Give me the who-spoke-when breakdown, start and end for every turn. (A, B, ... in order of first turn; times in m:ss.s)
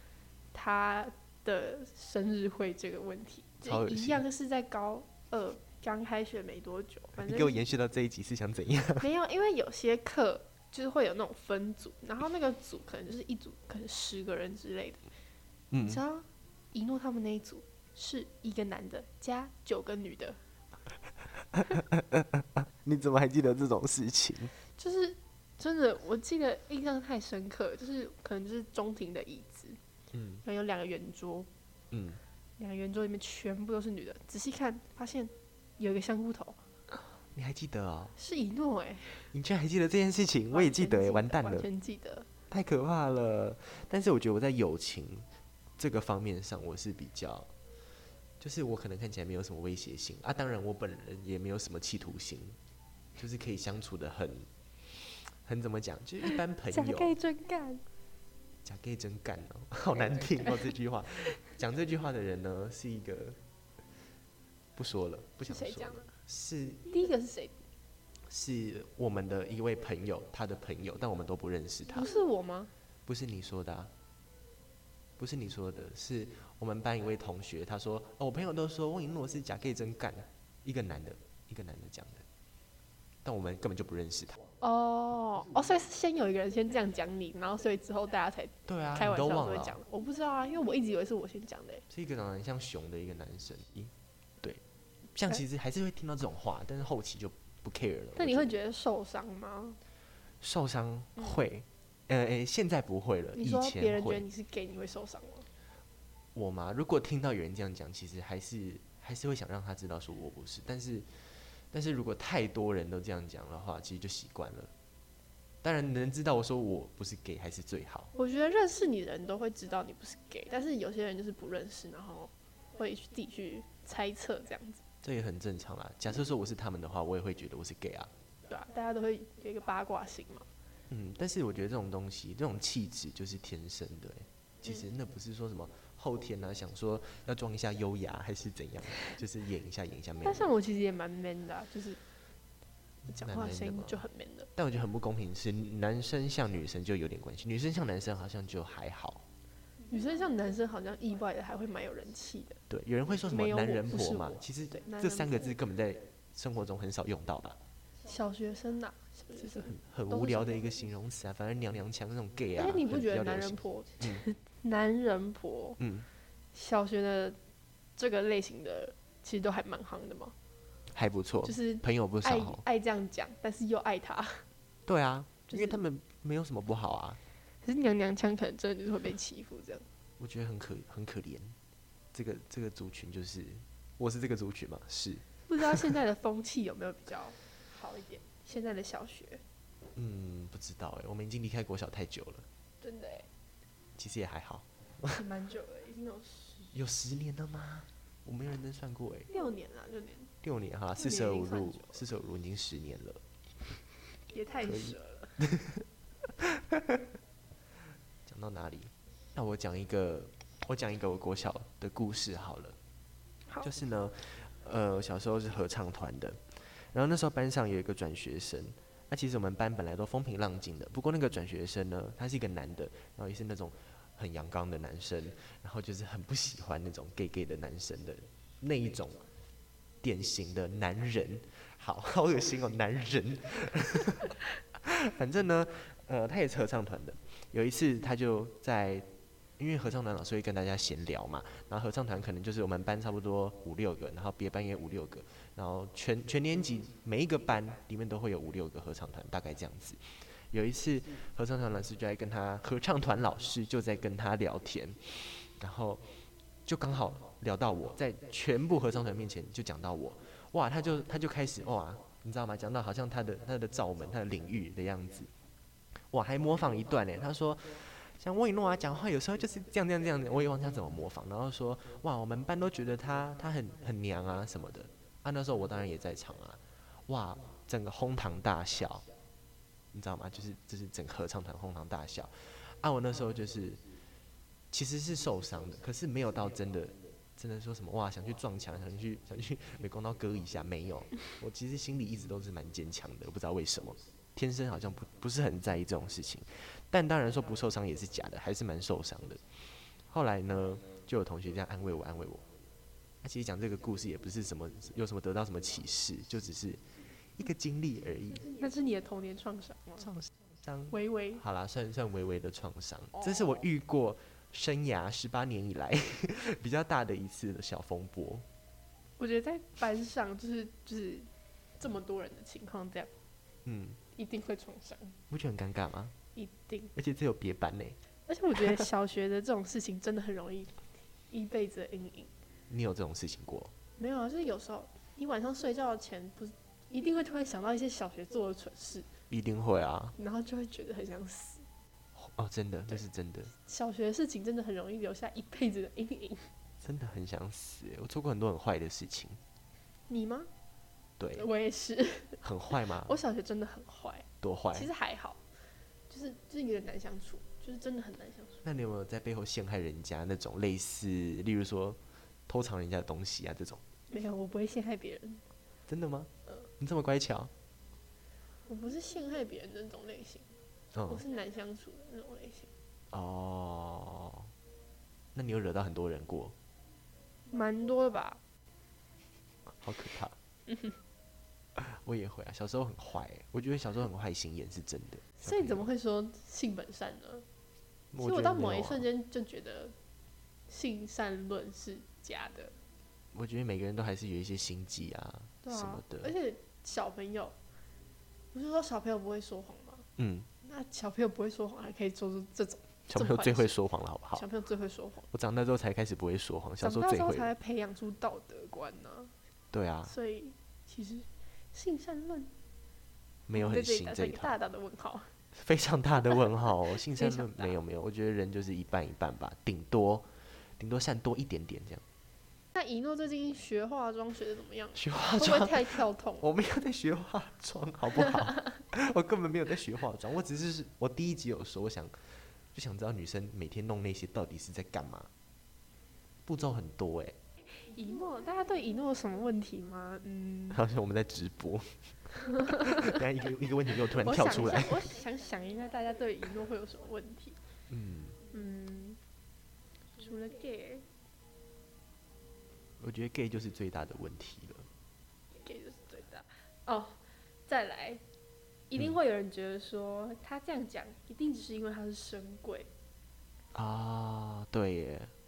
0:00.5-0:07.6 A
0:03.6-0:04.2 B
0:07.2-0:09.1 B
0:09.0-0:15.0 A
0:15.7-0:16.0 B
0:15.8-0:20.4 A
0:21.5-0:24.5 B
0:24.8-0:29.8 A
0:30.1-0:30.4 B
0:30.4-0:31.5 A
0:31.9-0:32.2 B
0:32.6-0:36.6 A
0:37.3-0:38.1 B
0:38.2-0:39.3 A
0:39.3-0:41.7 B
0:40.5-0:42.3 A
0:42.5-0:45.2 B
0:45.8-0:47.5 B
0:48.4-0:52.6 B
0:53.2-0:57.2 B
0:56.3-0:57.8 A
0:58.6-1:03.4 B
1:00.0-1:00.7 A
1:04.8-1:06.8 B
1:05.4-1:06.1 A
1:06.9-1:07.6 A
1:08.3-1:12.1 B
1:11.9-1:12.7 A
1:13.0-1:13.9 B
1:15.2-1:22.2 B
1:23.2-1:24.4 B
1:24.6-1:31.8 A
1:28.6-1:29.8 B
1:31.9-1:34.6 B
1:35.1-1:38.5 B
1:38.2-1:39.8 A
1:40.4-1:44.2 B
1:41.2-1:41.4 A
1:43.4-1:45.5 A
1:46.3-1:51.1 B
1:51.7-1:54.7 B
1:55.6-1:58.1 B
1:58.2-2:04.8 A
2:05.0-2:08.1 B
2:08.5-2:10.5 A
2:10.9-2:20.5 B
2:20.2-2:22.0 A
2:23.1-2:24.0 B
2:23.1-2:24.5 A
2:24.6-2:29.2 B
2:29.9-2:32.6 A
2:32.7-2:37.6 B
2:33.3-2:35.4 A
2:38.0-2:40.6 A
2:39.4-2:44.2 B
2:42.6-2:45.8 A
2:45.8-2:46.1 B
2:46.5-2:47.4 A
2:48.0-2:50.3 A
2:50.9-2:52.6 B
2:51.4-2:54.4 A
2:54.9-2:57.2 B
2:55.5-2:55.8 A
2:57.6-2:59.8 A
3:00.2-3:01.6 B
3:02.1-3:05.9 B
3:05.5-3:09.4 A
3:09.9-3:12.4 B
3:12.8-3:13.3 A
3:14.0-3:15.2 B
3:15.1-3:16.7 A
3:16.7-3:19.3 B
3:19.3-3:20.3 A
3:20.4-3:23.2 B
3:21.0-3:22.0 A
3:24.3-3:25.4 A
3:24.6-3:25.8 B
3:26.4-3:27.0 B
3:28.2-3:32.8 B
3:33.6-3:49.2 B
3:50.0-4:16.1 B
4:16.6-4:25.3 B
4:26.1-4:39.1 B
4:39.9-4:43.8 B
4:44.7-5:02.4 B
5:03.2-5:06.8 B
5:07.4-5:08.5 B
5:08.5-5:10.1 A
5:10.0-5:18.4 B
5:10.9-5:11.4 A
5:19.2-5:21.3 A
5:21.8-5:23.1 A
5:23.6-5:24.0 B
5:24.1-5:25.2 A
5:25.3-5:26.1 B
5:26.3-5:26.9 A
5:26.9-5:28.0 B
5:28.3-5:32.3 A
5:28.5-5:28.8 B
5:32.7-5:33.7 B
5:34.0-5:39.1 A
5:39.3-5:40.1 B
5:40.2-5:41.6 A
5:42.1-5:43.5 B
5:43.6-5:46.5 A
5:46.8-5:49.4 B
5:50.1-5:50.5 A
5:51.2-5:51.4 B
5:51.3-5:52.4 A
5:52.4-5:53.1 B
5:53.0-5:55.4 A
5:54.4-5:54.9 B
5:56.1-5:58.6 A
5:58.6-6:03.8 B
6:04.1-6:05.4 A
6:05.9-6:07.5 B
6:08.7-6:10.5 A
6:10.9-6:11.2 B
6:11.0-6:12.7 A
6:13.1-6:14.5 B
6:15.3-6:16.5 B
6:17.5-6:18.4 A
6:19.7-6:20.3 B
6:21.8-6:25.9 B
6:25.4-6:27.4 A
6:28.1-6:29.1 B
6:28.2-6:29.9 A
6:30.7-6:32.7 A
6:33.3-6:36.3 B
6:35.6-6:37.5 A
6:38.5-6:40.0 A
6:40.2-6:40.5 B
6:40.6-6:43.8 A
6:43.1-6:44.4 B
6:44.3-6:45.3 A
6:45.3-6:47.5 B
6:46.8-6:49.3 A
6:49.7-6:50.1 B
6:50.0-6:52.5 A
6:53.5-6:54.5 B
6:53.5-6:55.3 A
6:55.5-7:02.0 B
6:57.0-6:57.8 A
7:02.7-7:06.4 A
7:04.9-7:15.3 B
7:08.2-7:08.7 A
7:16.4-7:17.4 B
7:17.8-7:20.8 A
7:20.7-7:25.1 B
7:22.4-7:23.2 A
7:24.2-7:27.6 A
7:27.9-7:28.4 B
7:28.5-7:29.2 A
7:30.2-7:31.0 A
7:33.0-7:34.9 B
7:35.6-7:38.2 A
7:38.9-7:42.9 A
7:43.7-7:45.3 B